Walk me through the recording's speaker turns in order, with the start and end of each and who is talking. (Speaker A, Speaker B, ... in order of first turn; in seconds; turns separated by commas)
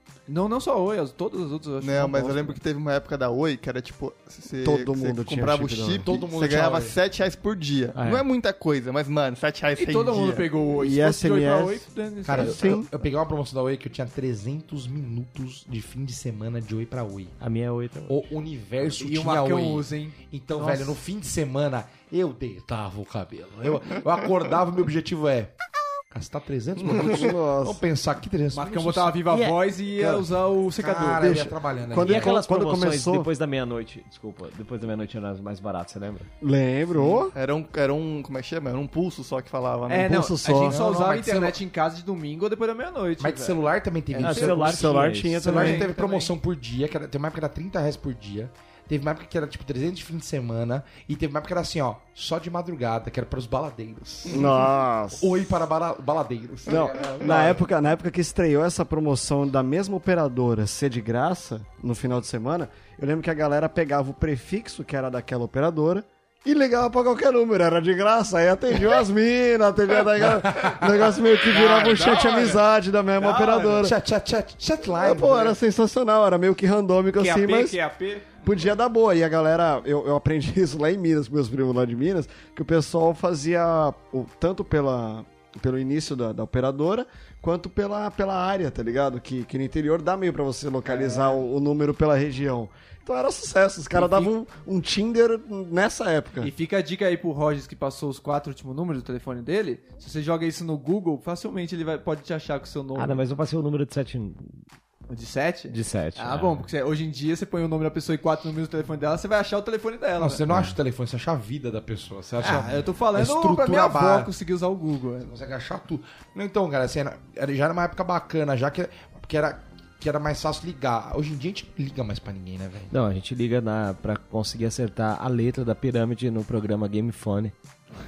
Speaker A: 0.3-2.6, Speaker B: 1.8-10.5, Speaker C: 4.6-6.1, Speaker D: 6.0-7.0, Speaker E: 8.0-8.2, Speaker A: 9.8-12.8, Speaker C: 10.8-12.9, Speaker D: 12.2-17.3, Speaker E: 17.4-18.2, Speaker D: 18.1-25.5, Speaker A: 18.8-21.0, Speaker D: 26.1-29.2, Speaker C: 26.9-27.8, Speaker A: 28.5-31.3, Speaker E: 29.3-29.6, Speaker D: 30.7-32.4, Speaker C: 31.1-33.3, Speaker E: 32.0-36.3, Speaker C: 36.4-37.3, Speaker B: 36.9-40.2, Speaker A: 39.9-44.6, Speaker C: 40.1-40.7, Speaker D: 40.4-41.6, Speaker D: 43.2-44.8, Speaker E: 44.2-45.5, Speaker C: 44.4-45.9, Speaker D: 45.4-54.5, Speaker A: 45.4-46.3, Speaker C: 54.3-55.4, Speaker D: 55.1-57.6, Speaker C: 56.7-74.0, Speaker D: 70.5-70.8, Speaker A: 71.5-72.6, Speaker A: 73.2-73.9, Speaker D: 73.8-75.5, Speaker C: 75.0-77.8, Speaker A: 77.2-78.2, Speaker C: 78.4-96.5, Speaker A: 90.8-91.4, Speaker A: 93.9-94.3, Speaker A: 96.4-103.2, Speaker E: 103.0-104.5, Speaker A: 105.1-110.4, Speaker E: 105.7-106.7, Speaker D: 110.2-114.3, Speaker E: 110.5-110.7, Speaker A: 112.4-115.3, Speaker D: 115.2-122.9, Speaker E: 122.9-127.5